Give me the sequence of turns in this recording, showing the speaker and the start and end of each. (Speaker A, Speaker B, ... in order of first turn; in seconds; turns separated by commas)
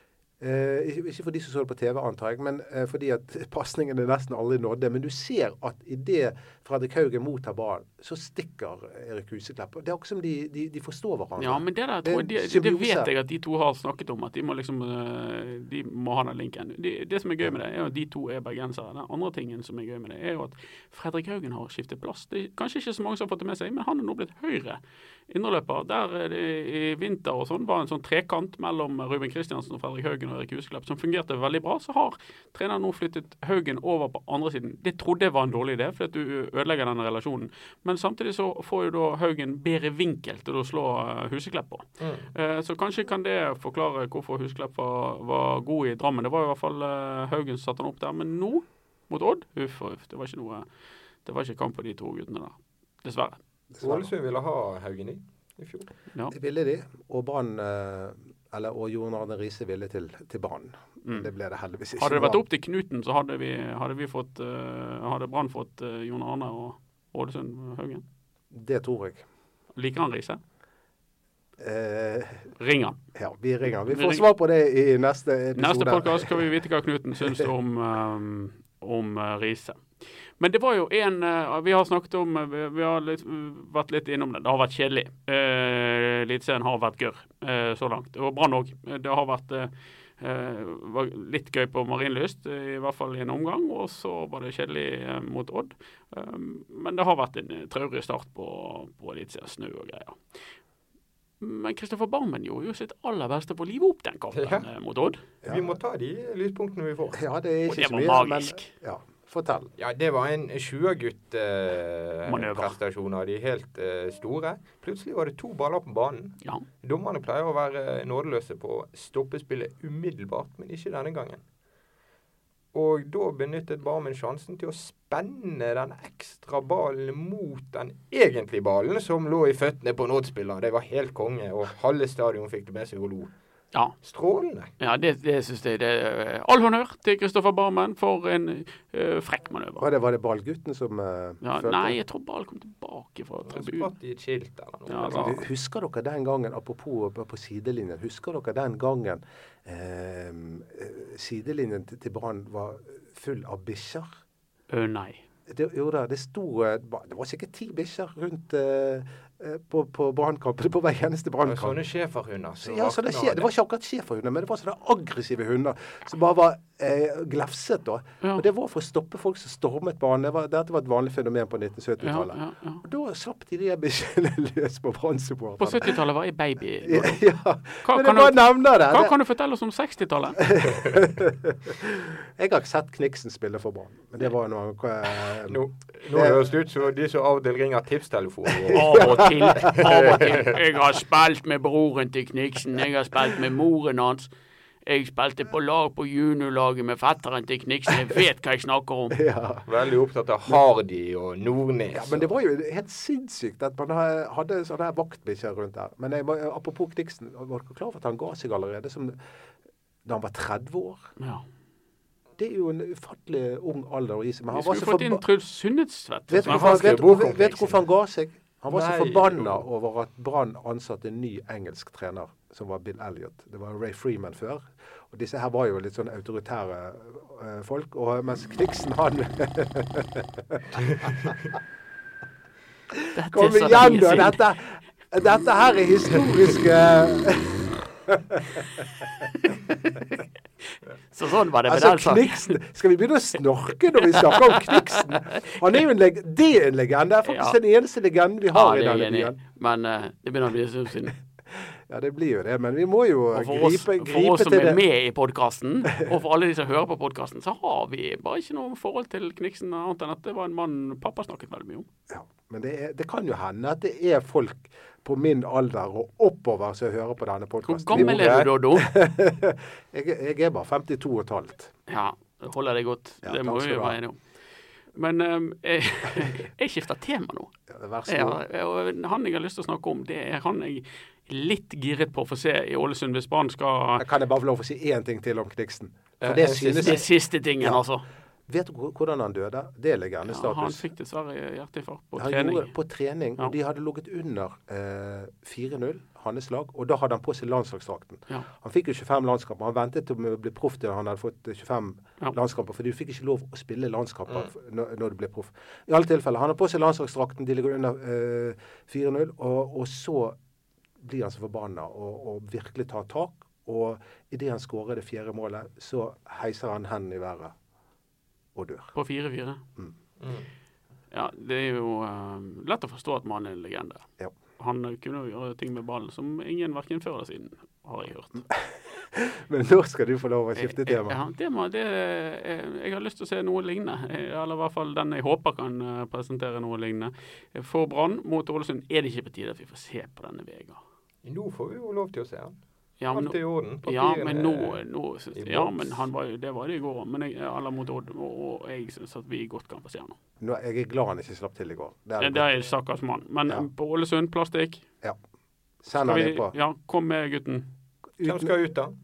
Speaker A: 0.4-13.1, Speaker B: 11.4-50.7, Speaker C: 42.0-42.3, Speaker B: 51.2-53.4, Speaker A: 53.7-54.1, Speaker C: 53.8-55.9, Speaker A: 56.3-62.4, Speaker B: 61.0-61.3, Speaker B: 62.0-68.0, Speaker A: 68.5-69.2, Speaker B: 69.8-70.4, Speaker A: 71.6-72.5, Speaker B: 72.6-73.0, Speaker A: 73.2-76.4, Speaker B: 73.9-74.3, Speaker B: 75.5-100.2, Speaker B: 101.4-105.2, Speaker C: 104.3-104.7, Speaker A: 105.4-105.8, Speaker C: 105.5-107.2, Speaker A: 107.1-109.7, Speaker B: 107.7-108.7, Speaker C: 109.8-121.4, Speaker B: 112.3-112.8, Speaker C: 122.7-133.3, Speaker C: 134.0-134.7, Speaker B: 134.8-139.9, Speaker A: 139.8-142.0, Speaker B: 141.4-143.9, Speaker C: 143.5-145.4, Speaker B: 144.9-145.4, Speaker A: 145.2-154.1, Speaker B: 154.7-155.2, Speaker A: 155.5-161.8, Speaker C: 161.4-163.5, Speaker A: 162.6-175.9, Speaker B: 172.0-172.8, Speaker B: 175.6-177.2, Speaker A: 176.8-179.1, Speaker B: 177.8-180.5, Speaker A: 180.4-186.4, Speaker C: 185.5-190.6, Speaker A: 188.5-189.8, Speaker B: 188.7-194.3, Speaker B: 194.8-199.2, Speaker A: 199.1-199.7, Speaker C: 199.7-202.3, Speaker A: 201.9-209.2, Speaker A: 210.1-211.1, Speaker B: 211.2-211.4, Speaker A: 212.4-215.2, Speaker B: 214.5-217.1, Speaker A: 216.3-231.3, Speaker C: 216.4-217.8, Speaker C: 218.7-219.6, Speaker A: 232.9-239.1, Speaker B: 233.1-234.4, Speaker B: 239.5-240.2, Speaker B: 241.1-242.6, Speaker A: 241.7-249.4, Speaker B: 244.0-245.4, Speaker B: 247.2-247.6, Speaker B: 248.5-251.2, Speaker A: 251.5-254.8, Speaker B: 253.3-261.9, Speaker A: 262.1-271.8, Speaker B: 267.6-268.9, Speaker C: 267.9-268.5, Speaker B: 271.9-274.2, Speaker A: 273.2-274.0, Speaker B: 274.9-277.5, Speaker A: 277.7-278.4, Speaker B: 278.1-284.1, Speaker A: 284.0-287.1, Speaker C: 286.2-287.0, Speaker B: 286.7-288.1, Speaker A: 288.5-290.8, Speaker B: 290.3-292.7, Speaker A: 292.2-310.4, Speaker A: 311.0-317.6, Speaker A: 318.6-318.9, Speaker B: 318.9-319.6, Speaker C: 320.2-320.5, Speaker B: 321.1-324.1, Speaker B: 324.6-328.4, Speaker A: 328.5-331.2, Speaker B: 330.6-340.8, Speaker C: 341.2-342.6, Speaker B: 343.0-350.2, Speaker C: 343.1-344.8, Speaker C: 345.3-346.1, Speaker A: 350.4-352.5, Speaker B: 352.2-354.9, Speaker A: 355.8-356.6, Speaker B: 355.9-357.7, Speaker A: 358.2-358.5, Speaker C: 358.2-358.9